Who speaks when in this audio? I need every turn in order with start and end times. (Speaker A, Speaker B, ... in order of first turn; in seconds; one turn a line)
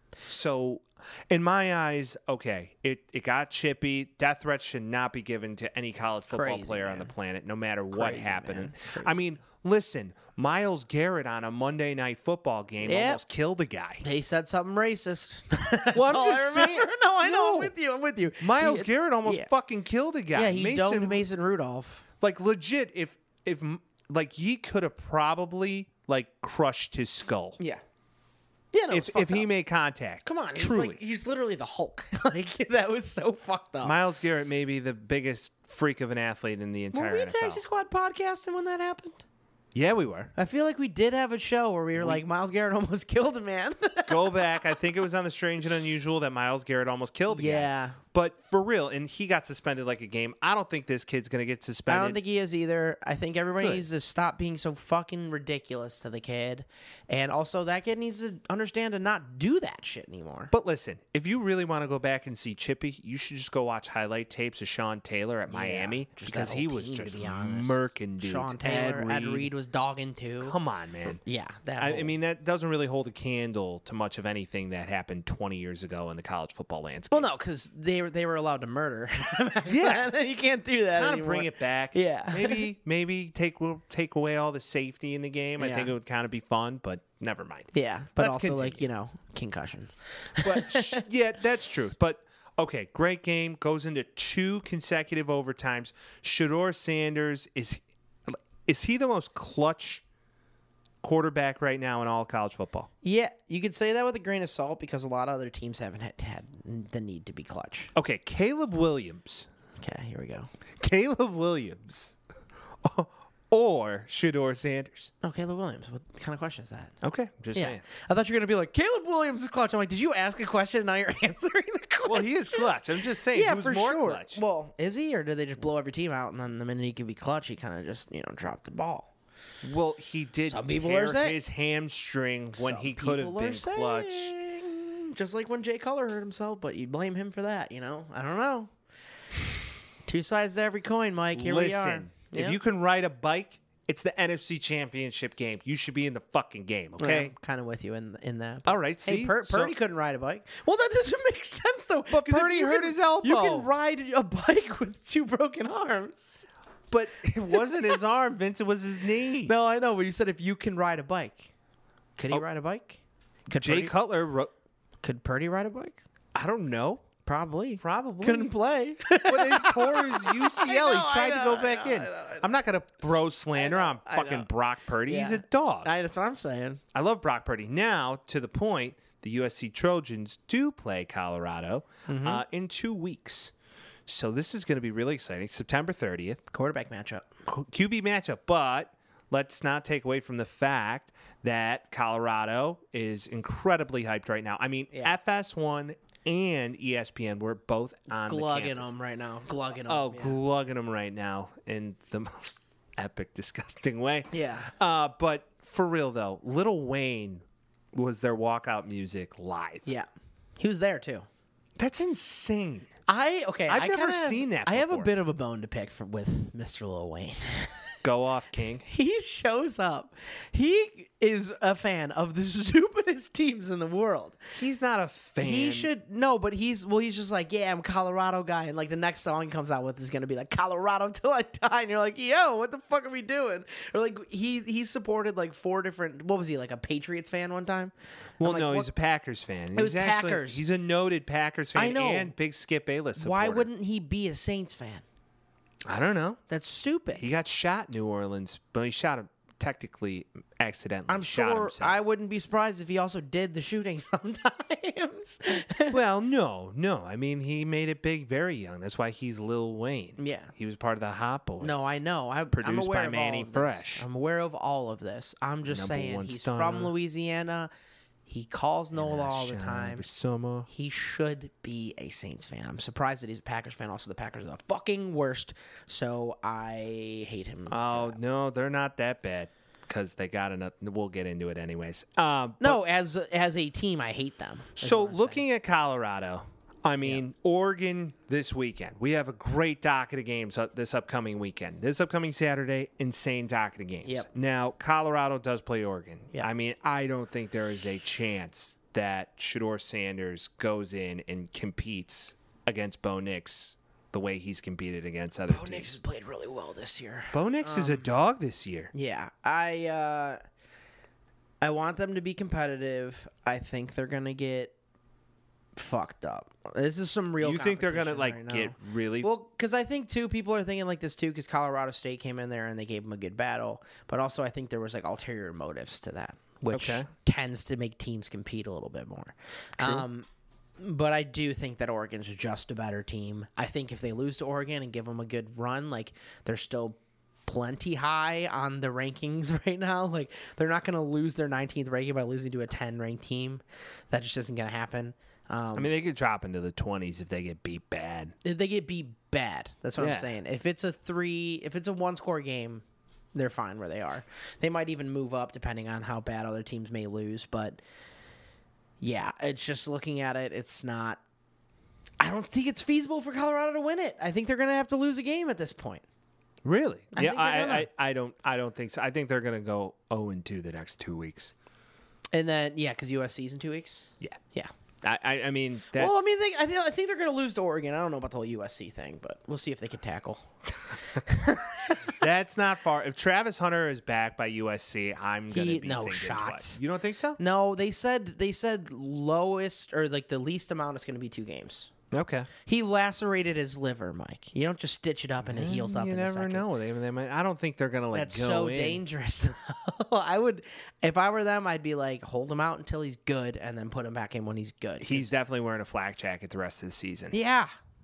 Speaker A: 0.3-14.0
Speaker B: 6.3-7.1
Speaker B: 7.9-9.2
Speaker B: 12.8-13.2
Speaker B: 14.0-19.5
Speaker A: 15.9-17.7
Speaker A: 18.4-21.2
Speaker B: 20.3-22.0
Speaker A: 22.2-27.6
Speaker B: 28.7-29.5
Speaker A: 28.9-31.0
Speaker B: 30.2-34.0
Speaker A: 33.8-37.6
Speaker B: 36.9-39.2
Speaker A: 39.7-40.3
Speaker B: 40.3-44.5
Speaker A: 42.0-42.2
Speaker A: 44.1-52.2
Speaker B: 47.3-48.0
Speaker B: 51.9-60.5
Speaker A: 53.6-53.8
Speaker A: 60.5-69.5
Speaker B: 65.5-70.6
Speaker A: 70.4-71.2
Speaker B: 71.2-72.1
Speaker A: 71.8-77.3
Speaker B: 77.1-82.6
Speaker A: 79.7-80.1
Speaker A: 80.9-88.8
Speaker B: 85.6-85.9
Speaker B: 87.7-91.0
Speaker A: 90.4-100.0
Speaker A: 101.0-102.9
Speaker B: 103.0-107.9
Speaker A: 107.9-109.5
Speaker B: 109.8-110.5
Speaker A: 110.8-112.2
Speaker A: 112.8-115.1
Speaker B: 115.2-116.9
Speaker A: 117.0-117.8
Speaker B: 117.5-129.1
Speaker A: 122.0-124.4
Speaker A: 129.6-134.3
Speaker B: 130.4-131.4
Speaker B: 132.5-138.7
Speaker B: 140.0-142.6
Speaker A: 141.3-147.3
Speaker B: 147.0-156.5
Speaker A: 148.7-149.7
Speaker A: 152.1-153.7
Speaker A: 156.9-159.5
Speaker B: 157.5-158.0
Speaker B: 159.4-161.5
Speaker B: 162.2-163.9
Speaker A: 163.6-164.5
Speaker B: 165.0-166.0
Speaker A: 166.3-167.1
Speaker B: 167.2-172.5
Speaker A: 167.8-168.5
Speaker A: 169.2-175.9
Speaker B: 173.5-174.5
Speaker B: 175.1-176.8
Speaker A: 176.9-183.5
Speaker B: 182.1-182.4
Speaker A: 184.1-186.4
Speaker B: 186.5-187.3
Speaker A: 187.4-198.9
Speaker B: 198.1-200.4
Speaker A: 199.8-209.9
Speaker B: 204.3-204.7
Speaker B: 210.6-211.2
Speaker A: 211.8-212.9
Speaker B: 213.1-217.8
Speaker A: 213.7-215.1
Speaker A: 218.0-218.8
Speaker B: 218.8-224.4
Speaker A: 224.5-225.9
Speaker B: 225.4-238.9
Speaker A: 238.4-243.7
Speaker B: 239.7-240.6
Speaker B: 241.7-242.3
Speaker B: 243.2-245.0
Speaker A: 245.9-246.4
Speaker B: 246.5-247.2
Speaker A: 247.2-252.0
Speaker B: 251.1-256.0
Speaker A: 255.9-261.9
Speaker B: 260.2-260.5
Speaker B: 261.6-267.7
Speaker A: 262.5-264.1
Speaker A: 265.7-266.9
Speaker B: 268.2-270.0
Speaker A: 268.9-270.7
Speaker B: 270.7-278.2
Speaker A: 277.7-282.8
Speaker B: 282.6-285.4
Speaker A: 284.8-305.9
Speaker B: 305.5-308.1
Speaker A: 307.3-308.9
Speaker B: 308.9-310.4
Speaker B: 311.6-314.7
Speaker B: 315.7-330.3
Speaker A: 317.4-319.3
Speaker A: 326.7-327.1
Speaker B: 330.8-345.9
Speaker A: 345.7-348.3
Speaker B: 348.4-357.8
Speaker A: 350.0-350.3
Speaker B: 359.0-361.2
Speaker B: 362.2-366.0
Speaker A: 366.6-371.5
Speaker B: 367.1-367.9
Speaker B: 372.3-374.7
Speaker A: 375.0-376.3
Speaker B: 375.9-380.4
Speaker B: 381.1-382.2
Speaker A: 382.1-387.4
Speaker B: 385.5-386.8
Speaker B: 387.4-391.9
Speaker A: 392.1-392.5
Speaker B: 392.6-396.6
Speaker A: 395.4-399.0
Speaker B: 398.1-405.3
Speaker A: 405.0-407.4
Speaker B: 407.3-407.7